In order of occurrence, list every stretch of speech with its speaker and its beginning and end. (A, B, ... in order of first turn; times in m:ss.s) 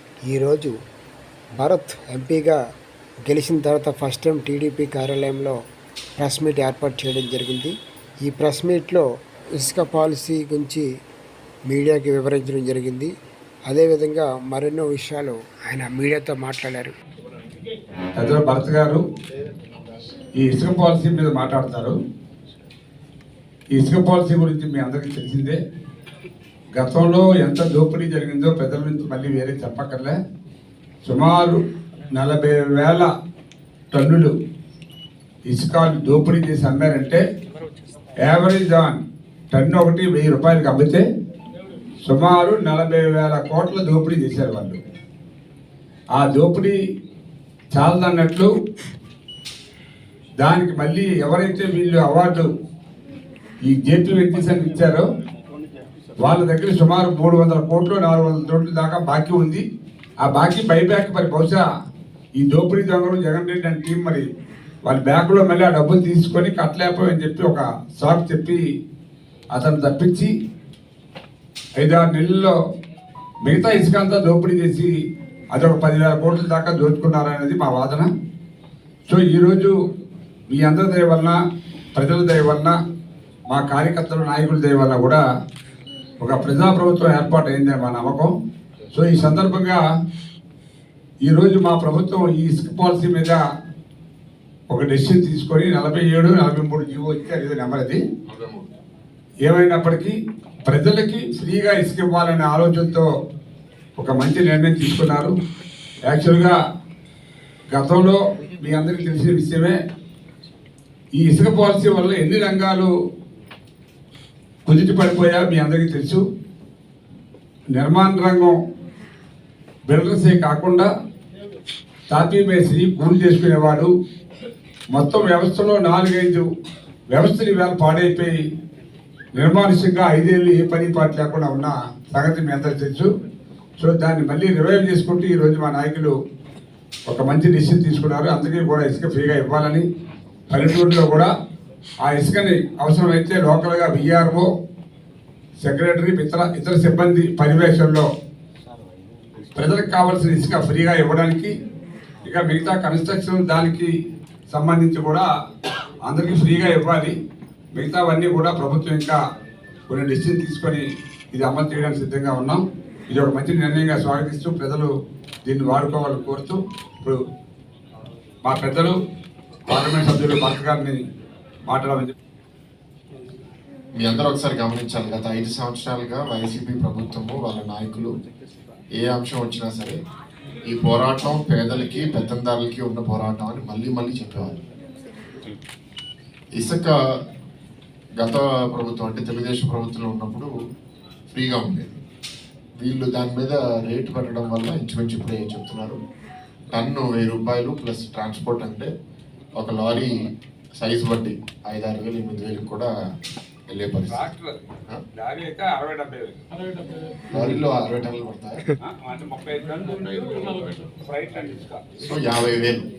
0:00.3-0:00.7 A
0:01.6-0:02.6 A
0:03.3-0:05.6 A
0:06.2-0:09.0 A
0:09.6-0:10.9 A
0:11.7-0:13.1 A
0:13.7-0:16.9 A
0:18.2-0:19.0 B
0:20.4-0:22.0 B
0:23.7-0:25.6 B
0:26.8-0:30.2 B
0:31.0-0:31.6 B
0:32.1-0:33.1 B
0:33.9-0:34.3 B
0:35.5-0:37.2 B
0:38.2-0:39.0 B
0:39.5-0:41.0 B
0:42.0-0:44.8 B
0:46.2-0:46.8 B
0:47.7-0:48.5 B
0:50.4-0:52.5 B
0:53.7-0:55.0 B
0:56.2-0:59.6 B
1:00.2-1:01.6 B
1:02.4-1:04.3 B
1:04.9-1:08.6 B
1:09.5-1:10.3 B
1:11.8-1:12.6 B
1:13.4-1:14.9 B
1:15.5-1:18.1 B
1:19.1-1:19.8 B
1:20.5-1:21.4 B
1:22.0-1:22.8 B
1:23.5-1:25.2 B
1:26.2-1:28.3 B
1:28.9-1:29.8 B
1:31.3-1:33.4 B
1:34.7-1:38.0 B
1:38.3-1:38.6 C
1:39.5-1:40.2 B
1:40.7-1:43.1 B
1:44.0-1:45.4 B
1:46.1-1:46.6 B
1:47.7-1:49.8 B
1:51.2-1:52.9 B
1:54.6-1:56.2 B
1:57.7-1:58.6 B
1:59.9-2:00.9 B
2:02.1-2:03.9 B
2:04.9-2:06.5 B
2:07.1-2:08.4 B
2:09.4-2:13.1 B
2:13.8-2:16.1 B
2:17.1-2:19.9 B
2:20.5-2:21.3 B
2:22.0-2:24.5 B
2:25.6-2:28.1 B
2:29.5-2:31.5 B
2:32.2-2:33.9 B
2:34.5-2:35.3 B
2:36.1-2:37.2 B
2:37.8-2:39.2 B
2:39.9-2:44.9 B
2:45.5-2:47.2 B
2:48.5-2:49.0 B
2:49.7-2:51.0 B
2:51.7-2:52.1 B
2:54.0-2:58.2 C
2:59.0-3:00.0 C
3:00.7-3:04.6 C
3:06.6-3:06.9 C
3:08.2-3:10.5 C
3:11.3-3:12.0 C
3:12.8-3:16.0 C
3:16.7-3:18.9 C
3:19.6-3:20.1 C
3:20.8-3:22.9 C
3:23.7-3:24.2 C
3:24.1-3:24.6 B
3:25.2-3:26.4 B
3:27.3-3:28.6 C
3:28.8-3:31.9 B
3:32.0-3:32.9 C